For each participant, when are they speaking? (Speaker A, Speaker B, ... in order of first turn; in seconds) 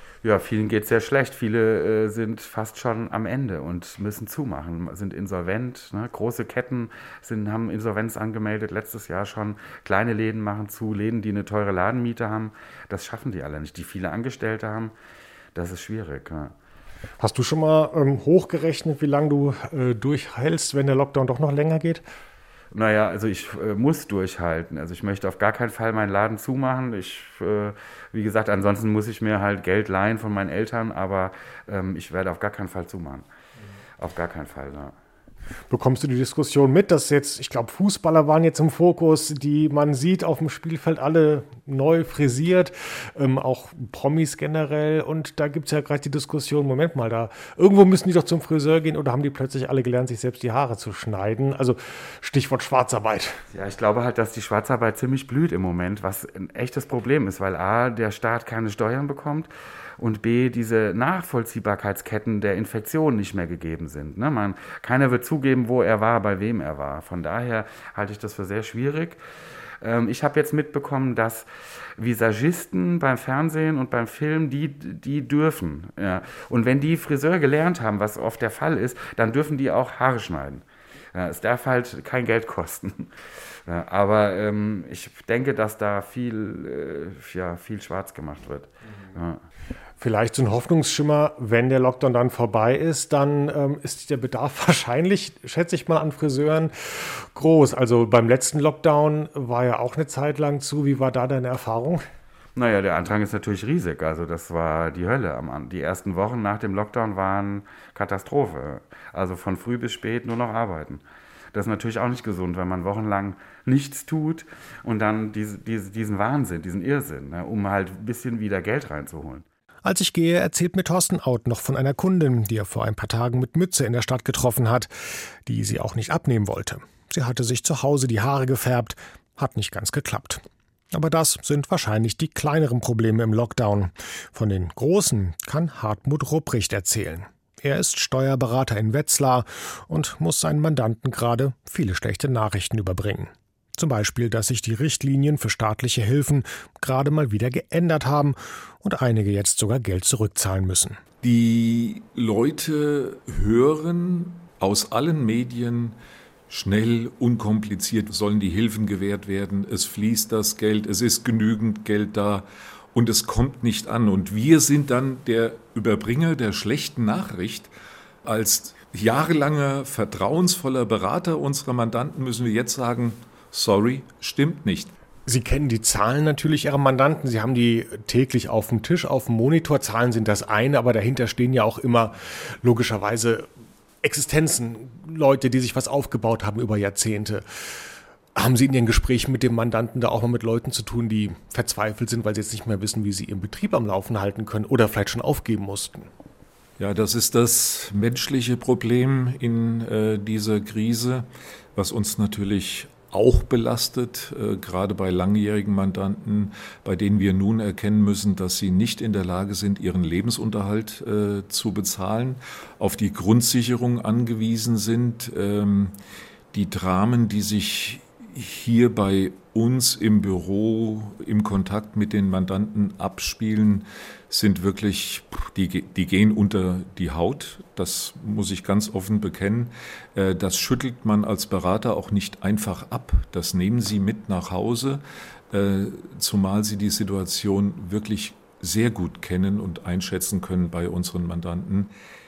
Speaker A: 0.2-14.9, 15.6-16.6, 22.7-33.3, 34.0-35.0, 53.5-69.2, 69.8-83.2, 83.7-89.4, 102.6-111.0, 111.5-119.5
Speaker B: 17.2-22.0, 35.7-53.4, 90.0-102.0, 119.8-124.9, 125.5-151.0, 175.3-183.5, 184.0-196.1
Speaker C: 151.2-156.0, 156.5-167.7, 168.2-174.9, 196.8-215.9, 216.5-241.9